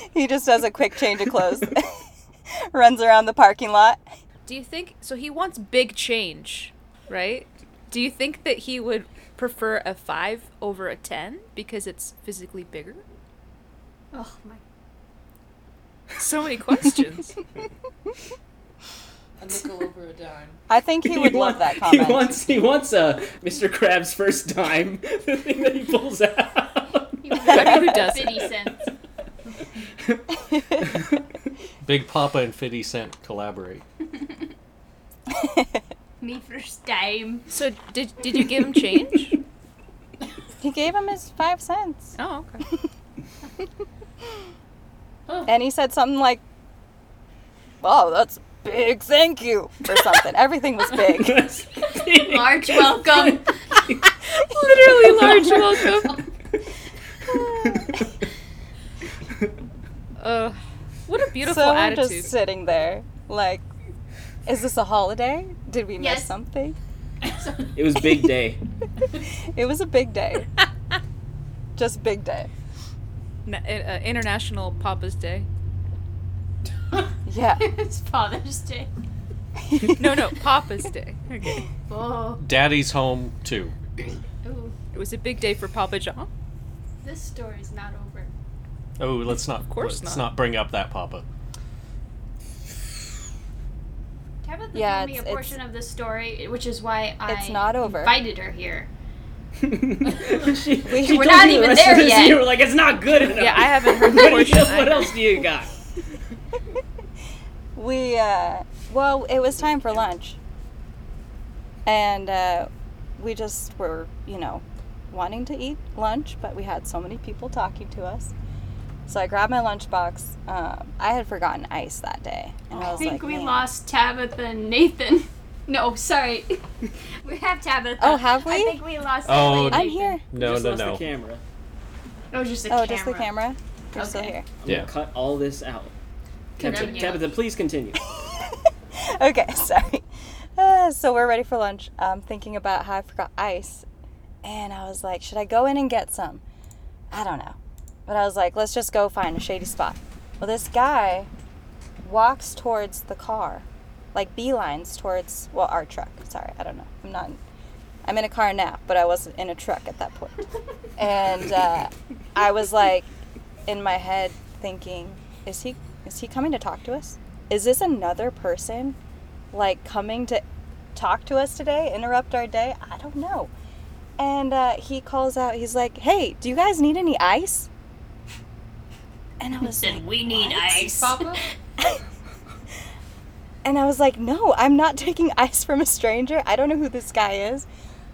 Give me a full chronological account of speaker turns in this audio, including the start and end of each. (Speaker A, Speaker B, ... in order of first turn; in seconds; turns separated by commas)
Speaker A: 0.1-2.0, Speaker A: 2.7-4.0, Speaker B: 4.5-13.0, Speaker C: 14.1-14.6, Speaker B: 16.2-17.3, Speaker D: 19.4-20.6, Speaker A: 20.7-22.4, Speaker E: 21.0-27.2, Speaker C: 27.2-28.9, Speaker B: 27.5-28.5, Speaker A: 27.5-28.2, Speaker A: 30.3-31.0, Speaker F: 31.8-33.8, Speaker A: 35.3-35.8, Speaker C: 36.2-37.5, Speaker B: 37.5-39.4, Speaker A: 40.6-42.2, Speaker B: 42.2-42.6, Speaker A: 45.5-46.4, Speaker A: 47.8-51.5, Speaker E: 50.9-54.1, Speaker C: 52.0-53.6, Speaker B: 54.5-56.2, Speaker A: 54.6-55.6, Speaker E: 54.9-56.2, Speaker A: 57.2-58.1, Speaker E: 57.5-58.1, Speaker B: 60.2-62.3, Speaker A: 61.4-63.6, Speaker A: 64.5-66.8, Speaker C: 66.0-66.3, Speaker C: 67.4-67.7, Speaker E: 67.8-68.6, Speaker A: 69.5-70.5, Speaker A: 71.8-72.5, Speaker B: 73.5-75.5, Speaker A: 77.3-77.7, Speaker C: 77.6-78.9, Speaker A: 79.6-80.3, Speaker B: 80.0-81.7, Speaker C: 81.9-82.4, Speaker F: 82.4-83.8, Speaker C: 84.4-84.8, Speaker B: 84.9-86.3, Speaker C: 87.0-88.3, Speaker F: 89.0-91.2, Speaker B: 89.7-90.3, Speaker C: 94.4-98.9, Speaker A: 94.7-95.6, Speaker A: 97.3-98.2, Speaker E: 99.6-105.7, Speaker A: 100.9-101.5, Speaker C: 100.9-102.5, Speaker B: 103.3-105.5, Speaker A: 107.8-110.4, Speaker A: 111.9-118.3, Speaker A: 119.1-123.6, Speaker C: 122.7-126.6, Speaker C: 127.2-130.2, Speaker A: 128.0-128.8, Speaker F: 129.2-131.1, Speaker A: 129.4-130.2, Speaker E: 130.3-131.4, Speaker C: 132.3-133.3, Speaker A: 132.7-134.5, Speaker C: 133.9-134.4, Speaker E: 134.6-135.9, Speaker E: 136.6-138.0, Speaker D: 136.6-137.4, Speaker C: 136.6-137.2, Speaker A: 138.1-143.8, Speaker A: 144.4-146.4, Speaker A: 147.1-151.3, Speaker A: 152.0-157.4, Speaker A: 158.1-160.5, Speaker A: 161.0-163.1, Speaker A: 163.7-169.0, Speaker A: 169.5-170.4, Speaker A: 170.9-173.5, Speaker A: 174.2-177.7, Speaker A: 179.4-180.9, Speaker C: 179.6-181.4, Speaker D: 180.7-181.4, Speaker A: 183.6-187.7